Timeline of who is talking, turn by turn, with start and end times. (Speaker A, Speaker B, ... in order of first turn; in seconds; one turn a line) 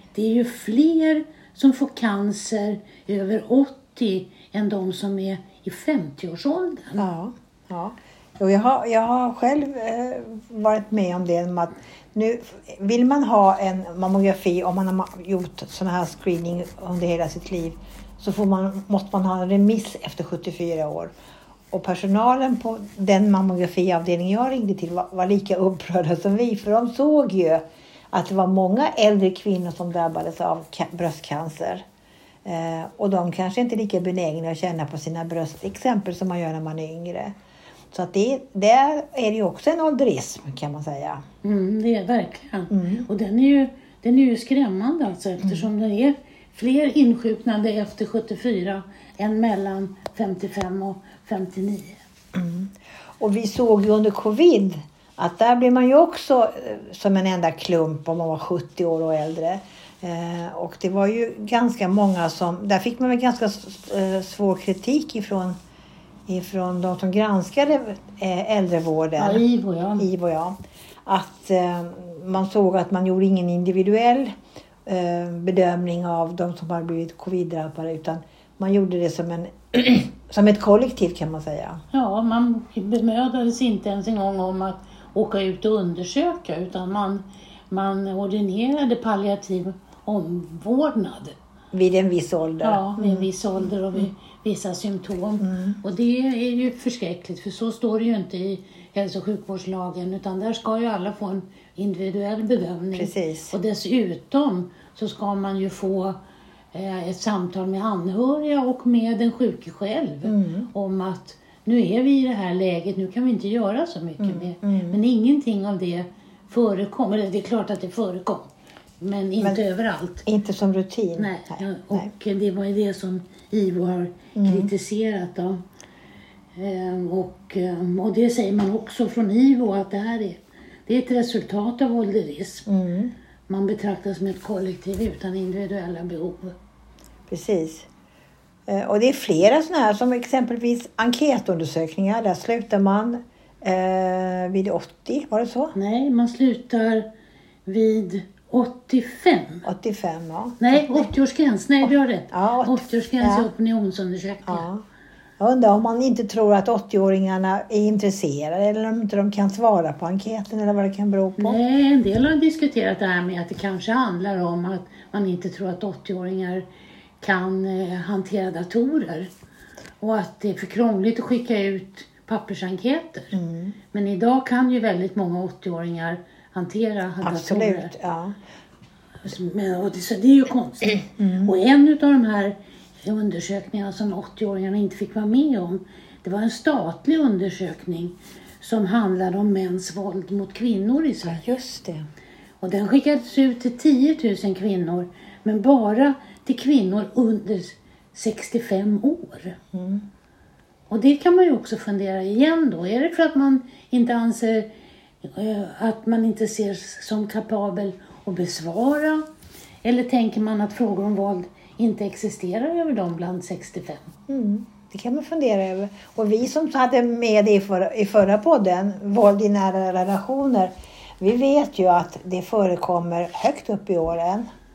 Speaker A: 0.1-7.1
Speaker B: 7.0-21.1
Speaker B: 21.7-31.8
Speaker B: 32.5-37.3
Speaker B: 37.9-41.2
Speaker A: 41.4-52.0
Speaker B: 42.7-43.1
Speaker B: 52.4-65.6
Speaker B: 66.3-69.4
Speaker A: 69.2-70.1
Speaker B: 70.0-74.3
Speaker B: 74.9-81.8
Speaker A: 81.9-91.4
Speaker B: 91.7-94.0
Speaker A: 92.6-106.2
Speaker B: 95.4-95.8
Speaker B: 102.9-103.5
Speaker A: 106.7-120.2
Speaker B: 110.2-110.7
Speaker B: 114.2-115.0
Speaker B: 120.3-122.1
Speaker A: 121.2-125.6
Speaker B: 124.4-124.7
Speaker A: 126.5-132.7
Speaker B: 132.7-133.1
Speaker A: 133.5-136.6
Speaker B: 137.3-137.9
Speaker B: 138.7-145.8
Speaker A: 145.7-147.1
Speaker A: 147.7-149.7
Speaker B: 149.7-151.1
Speaker A: 150.6-154.7
Speaker B: 152.3-153.5
Speaker B: 154.5-154.8
Speaker B: 155.4-161.6
Speaker A: 161.4-166.7
Speaker A: 167.2-169.3
Speaker A: 170.0-173.4
Speaker B: 173.3-173.8
Speaker A: 173.9-177.9
Speaker B: 177.2-178.4
Speaker A: 179.2-191.5
Speaker B: 181.2-181.5
Speaker B: 191.2-192.1
Speaker A: 192.6-199.6
Speaker B: 199.7-200.1
Speaker A: 200.9-204.7
Speaker A: 205.2-209.2
Speaker A: 209.8-214.1
Speaker B: 214.3-224.5